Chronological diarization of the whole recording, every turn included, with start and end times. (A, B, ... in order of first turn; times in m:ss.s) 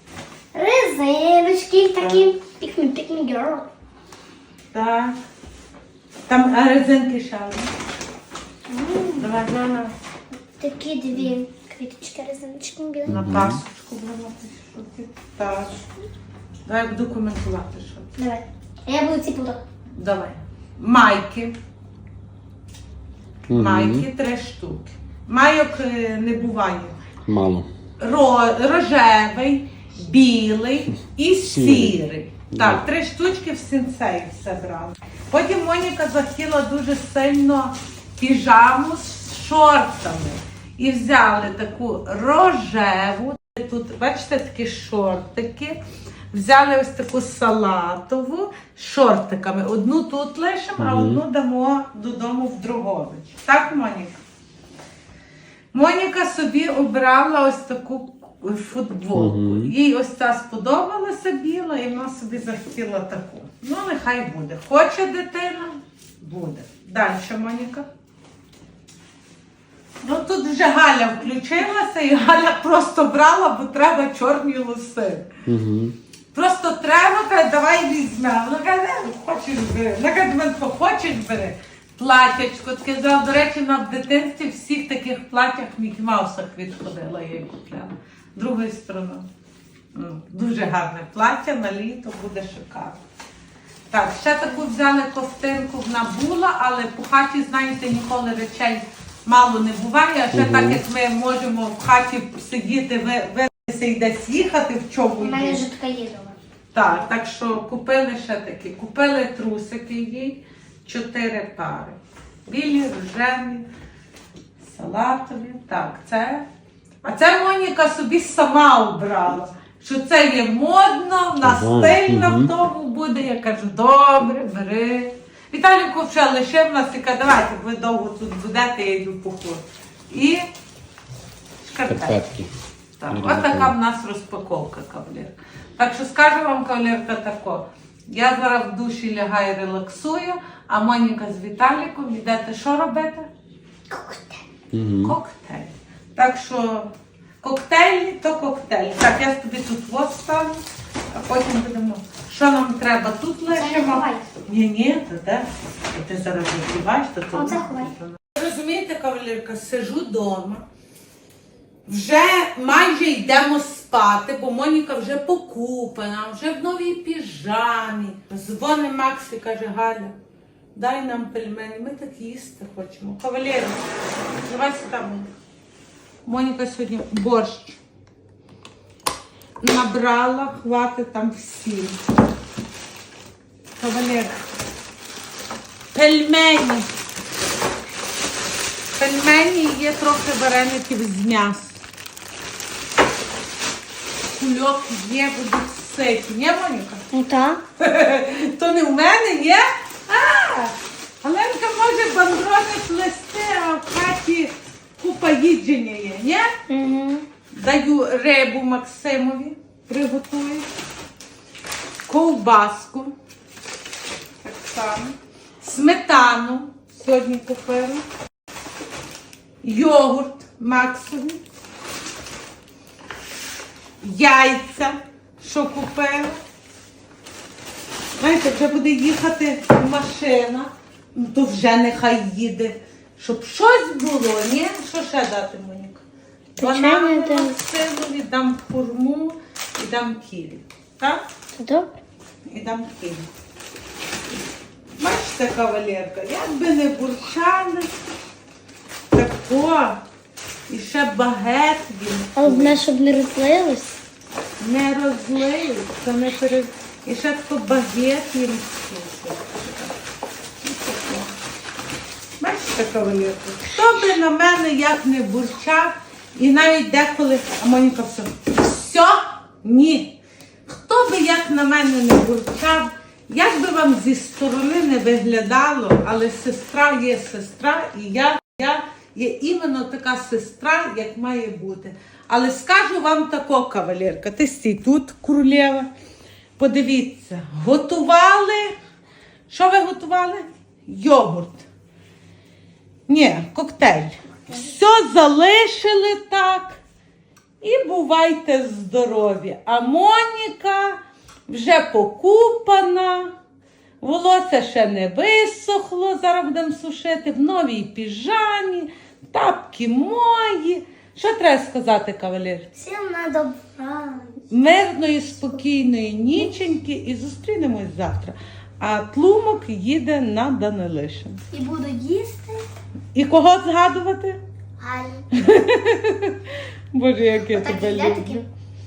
0:00.5-0:03.7 A
0:02.0-0:02.3 B
0:04.7-0:05.2 B
0:06.3-0:07.7 B
0:08.7-0:09.3 A
0:09.2-0:09.9 B
0:10.6-0:13.2 A
0:13.0-0:13.6 C
0:13.0-0:15.8 B
0:16.6-0:18.1 B
0:18.2-0:19.6 A
0:20.0-0:21.5 B
0:23.5-0:24.1 C
0:23.5-0:27.0 B
0:27.2-0:27.7 C
0:28.0-0:45.8 B
0:31.4-0:32.8 C
0:46.3-0:54.2 B
0:50.8-0:51.2 C
0:55.7-1:07.8 B
0:59.1-0:59.7 C
1:10.0-1:15.3 B
1:15.4-1:16.0 C
1:16.3-1:29.3 B
1:29.9-1:33.0 B
1:33.9-1:45.6 B
1:40.3-1:40.8 C
1:45.2-1:46.4 A
1:46.7-1:52.0 B
1:52.5-1:53.6 B
1:54.7-1:56.4 B
1:57.0-2:10.4 B
2:01.4-2:02.5 C
2:11.6-2:12.2 B
2:11.9-2:12.5 C
2:13.0-2:23.3 B
2:13.1-2:13.7 C
2:23.9-2:24.4 A
2:24.7-2:25.2 C
2:25.0-2:40.6 B
2:33.5-2:34.2 A
2:37.3-2:37.9 A
2:41.9-2:50.1 B
2:50.7-2:53.8 B
2:54.4-2:55.3 B
2:56.2-2:57.8 B
2:59.6-3:02.0 B
3:03.8-3:04.4 B
3:05.9-3:06.9 B
3:09.0-3:11.8 B
3:14.3-3:17.0 B
3:17.1-3:17.6 A
3:17.8-3:26.5 B
3:26.7-3:27.3 A
3:27.5-3:30.7 B
3:32.1-3:33.1 B
3:34.4-3:38.0 B
3:39.6-3:41.4 B
3:44.0-3:46.4 B
3:48.2-3:56.0 B
3:56.6-4:01.2 B
3:56.6-3:57.6 A
4:01.6-4:01.9 A
4:02.5-4:03.3 B
4:05.0-4:07.9 B
4:09.1-4:10.0 B
4:10.7-4:12.8 B
4:12.4-4:14.0 A
4:14.6-4:20.0 B
4:20.6-4:21.3 B
4:22.4-4:30.2 B
4:30.7-4:45.9 B
4:46.6-4:48.7 B
4:49.5-4:51.6 B
4:53.1-4:56.8 B
4:57.6-5:03.3 B
5:04.0-5:12.7 B
5:12.8-5:14.4 A
5:14.5-5:21.4 B
5:21.5-5:22.6 A
5:23.1-5:24.4 B
5:24.8-5:25.2 A
5:25.3-5:28.4 B
5:27.5-5:28.4 A